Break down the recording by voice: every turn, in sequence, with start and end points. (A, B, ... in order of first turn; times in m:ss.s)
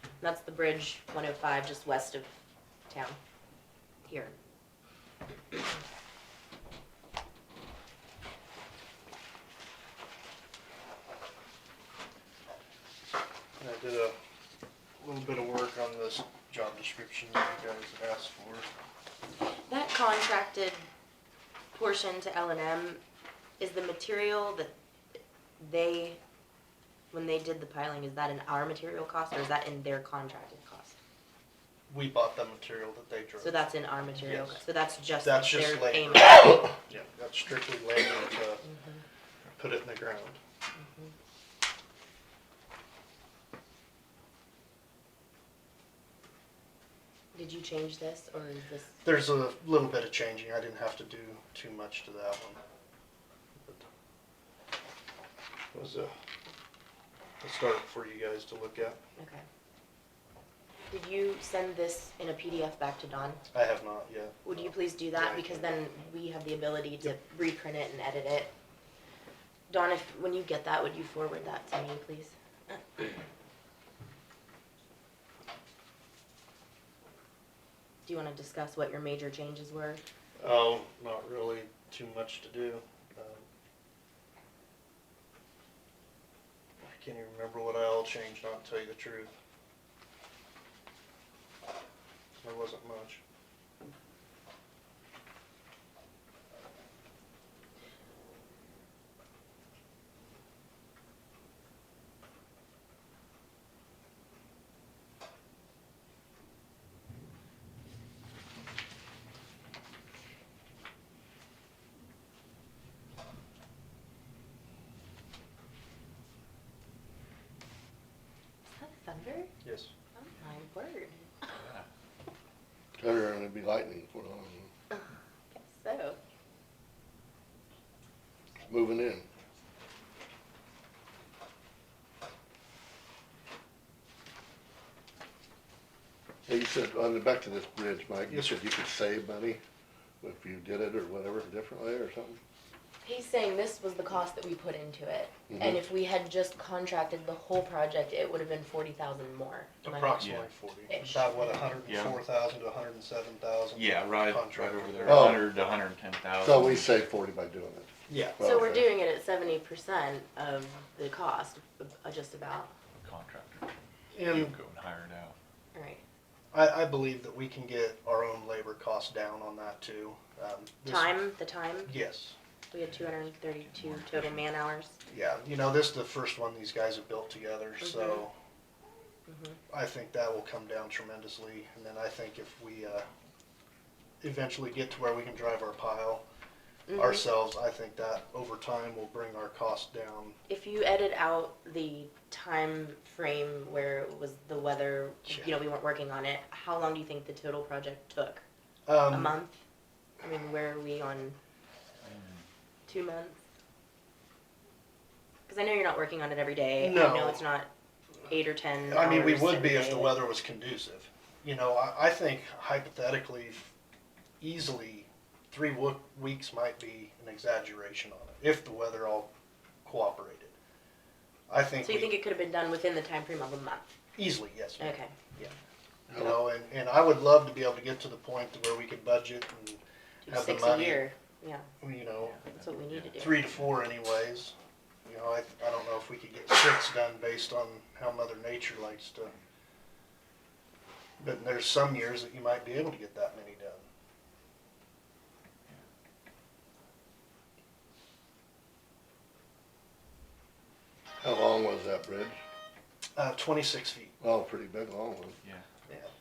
0:00.2-0:02.4 A
0:02.9-0:03.2 A
0:04.1-0:04.4 A
0:13.6-0:14.2 B
0:15.0-0:18.7 B
0:19.7-0:20.9 A
0:21.7-0:23.0 A
0:23.6-0:24.8 A
0:25.6-0:26.2 A
0:27.1-0:31.0 A
0:31.9-0:33.6 B
0:33.4-0:36.7 A
0:34.2-0:34.6 B
0:35.2-0:38.6 B
0:38.6-0:39.0 A
0:39.6-0:40.4 B
0:40.8-0:41.1 A
0:47.3-0:49.0 A
0:49.0-0:52.6 B
0:53.6-0:53.9 B
0:55.7-0:56.1 B
0:57.4-0:59.0 B
0:59.2-0:59.4 A
1:00.9-1:03.4 A
1:03.5-1:05.7 B
1:04.4-1:08.5 A
1:09.7-1:13.0 A
1:18.0-1:20.0 A
1:20.4-1:23.4 B
1:26.8-1:29.3 B
1:32.4-1:33.2 B
1:58.8-1:59.5 A
1:59.6-1:59.9 B
2:00.2-2:01.6 A
2:01.5-2:01.9 C
2:03.0-2:04.7 D
2:04.9-2:06.2 A
2:08.7-2:09.3 D
2:16.5-2:19.6 D
2:18.3-2:18.6 B
2:20.2-2:22.4 D
2:23.0-2:30.2 A
2:25.5-2:25.8 D
2:29.8-2:35.5 B
2:30.2-2:30.5 C
2:30.9-2:31.7 A
2:31.8-2:32.2 C
2:33.7-2:36.9 C
2:35.0-2:35.5 D
2:36.4-2:38.9 D
2:38.1-2:38.4 B
2:38.4-2:42.7 A
2:43.0-2:43.7 C
2:44.1-2:44.6 B
2:44.3-2:45.4 C
2:45.7-2:46.0 A
2:46.5-2:51.2 B
2:50.9-2:51.9 A
2:51.9-2:52.4 B
2:52.7-2:55.0 A
2:52.8-2:54.4 C
2:55.1-2:58.4 B
2:57.8-2:58.3 A
2:59.3-2:59.6 A
2:59.7-3:03.1 B
3:04.2-3:06.2 B
3:06.9-3:07.2 A
3:07.0-3:10.4 B
3:10.5-3:18.4 A
3:15.3-3:15.5 B
3:18.9-3:19.4 B
3:19.1-3:19.6 A
3:20.2-3:21.4 A
3:22.0-3:22.4 C
3:22.9-3:23.4 A
3:25.5-3:27.7 A
3:26.8-3:27.4 B
3:28.3-3:30.2 A
3:28.8-3:33.7 B
3:34.4-3:39.3 B
3:39.8-3:40.6 B
3:41.5-3:42.2 B
3:41.8-3:43.9 A
3:44.2-3:45.6 B
3:44.8-3:45.1 A
3:46.1-3:51.0 B
3:50.2-3:51.7 A
3:51.8-3:52.4 B
3:52.3-3:53.7 C
3:52.6-3:53.5 A
3:53.2-3:54.5 B
3:55.0-3:59.3 B
4:01.2-4:03.8 B
4:11.2-4:12.4 D
4:13.2-4:14.2 B
4:14.2-4:15.4 D